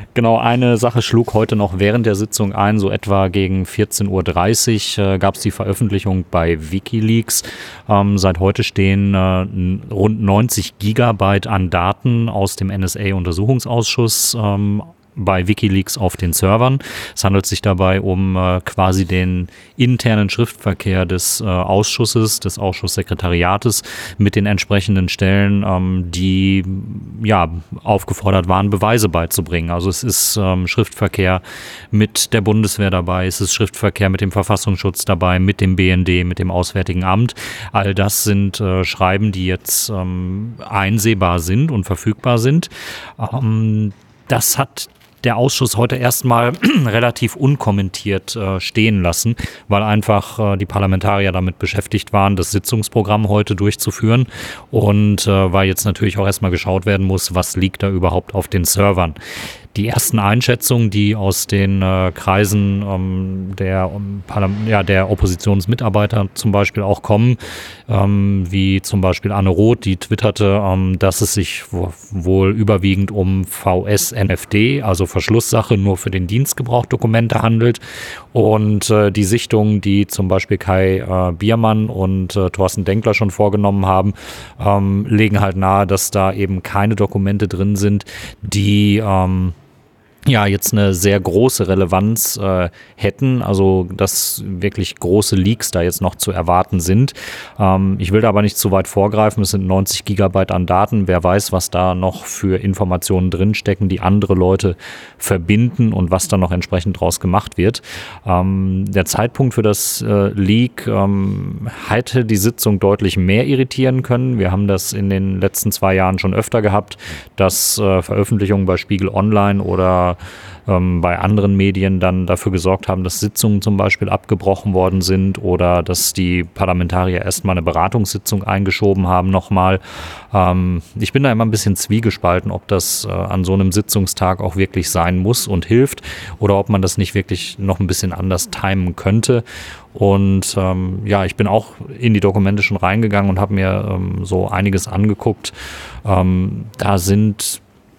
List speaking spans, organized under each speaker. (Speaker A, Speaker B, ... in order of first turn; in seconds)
Speaker A: 0.1-59.2, 59.7-77.8, 78.3-89.5, 90.2-147.6